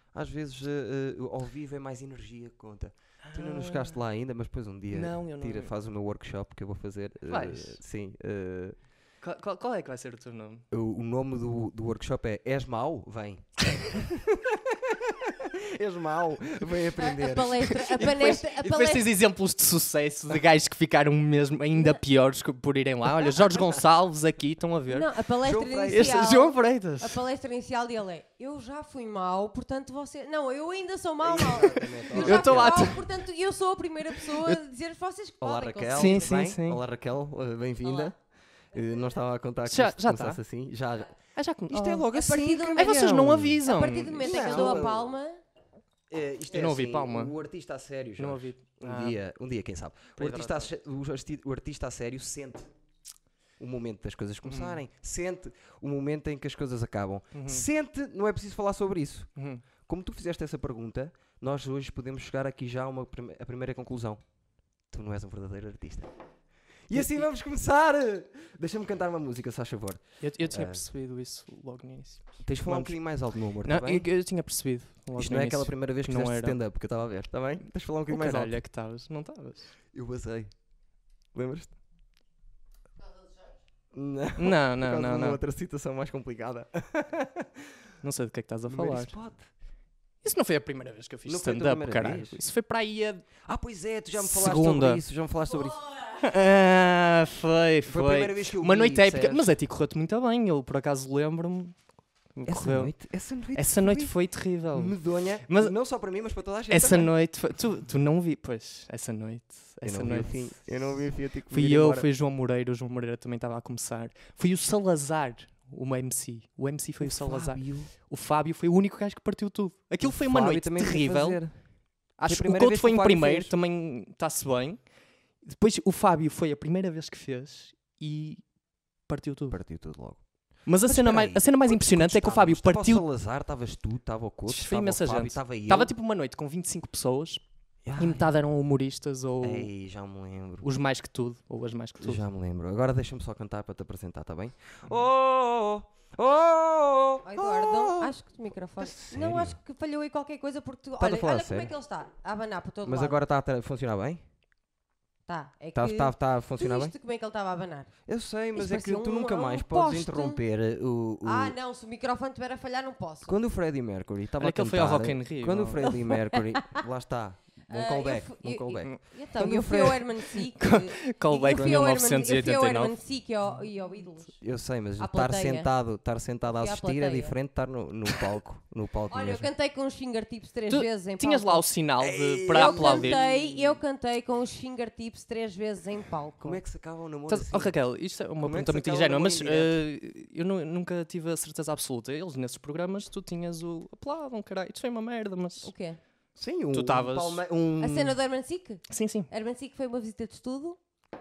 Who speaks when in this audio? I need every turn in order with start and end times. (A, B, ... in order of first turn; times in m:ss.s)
0:00.1-0:08.8 A
0:03.2-0:04.0 B
0:04.9-0:05.7 B
0:07.3-0:07.8 B
0:09.2-0:10.6 B
0:10.7-0:18.3 A
0:17.0-0:19.1 C
0:17.6-0:25.1 B
0:24.9-0:36.4 C
0:25.4-0:26.1 A
0:25.9-0:27.2 B
0:31.2-0:33.0 A
0:31.6-0:33.0 B
0:34.1-0:34.6 B
0:35.4-0:38.2 A
0:35.9-0:36.8 B
0:37.8-0:38.1 C
0:38.7-0:41.2 A
0:38.8-0:39.2 C
0:39.7-0:40.4 B
0:41.4-0:42.1 B
0:41.7-0:43.6 A
0:42.1-0:43.0 C
0:42.8-0:44.9 B
0:43.7-0:45.4 C
0:44.2-0:45.1 A
0:46.1-0:52.7 A
0:46.5-0:47.4 B
0:48.2-0:49.2 B
0:50.2-0:50.7 B
0:53.6-0:59.3 A
0:54.4-0:54.8 B
0:57.3-0:57.7 B
0:59.4-0:59.6 B
0:59.8-1:04.2 A
1:04.9-1:06.1 A
1:06.9-1:10.8 A
1:06.9-1:07.3 B
1:10.2-1:13.0 B
1:12.4-1:14.1 A
1:13.6-1:16.6 B
1:15.2-1:18.6 A
1:18.1-1:19.7 B
1:19.9-1:20.5 A
1:21.3-1:21.8 A
1:23.9-1:27.7 A
1:24.4-1:25.4 B
1:28.0-1:29.2 B
1:28.7-1:29.5 A
1:30.2-1:33.3 B
1:31.3-1:32.4 A
1:33.4-1:35.8 A
1:34.2-1:35.0 B
1:36.1-1:41.8 B
1:37.9-1:39.5 A
1:42.4-1:42.9 B
1:42.5-1:44.2 A
1:43.5-1:45.7 B
1:44.7-1:47.1 A
1:46.7-2:01.4 B
1:49.8-1:52.1 A
1:57.0-1:57.9 A
2:00.0-2:01.6 A
2:02.2-2:04.8 B
2:02.2-2:03.5 A
2:05.4-2:08.4 B
2:09.1-2:09.6 B
2:09.5-2:10.2 A
2:10.7-2:13.0 B
2:10.8-2:15.9 A
2:14.5-2:17.4 B
2:17.8-2:18.3 A
2:18.0-2:19.7 B
2:19.4-2:20.7 A
2:20.6-2:22.2 B
2:22.0-2:28.1 A
2:27.2-2:33.2 C
2:28.8-2:29.6 A
2:31.0-2:31.7 A
2:32.8-2:34.2 A
2:35.3-2:37.9 C
2:35.8-2:36.9 A
2:38.1-2:41.6 A
2:38.6-2:40.4 C
2:41.2-2:43.4 C
2:43.3-2:50.1 A
2:44.4-2:46.0 B
2:45.8-2:46.8 C
2:47.7-2:54.4 C
2:50.3-2:53.0 B
2:51.5-2:51.8 A
2:54.4-2:59.5 A
2:55.0-2:55.7 C
2:56.5-2:57.4 C
2:59.1-3:01.6 C
3:00.7-3:03.2 B
3:02.0-3:03.8 A
3:02.5-3:06.6 C
3:06.4-3:07.8 A
3:07.3-3:15.7 B
3:08.4-3:09.8 A
3:15.6-3:16.0 C
3:16.4-3:18.2 A
3:16.7-3:17.4 B
3:17.8-3:20.8 C
3:18.9-3:19.3 B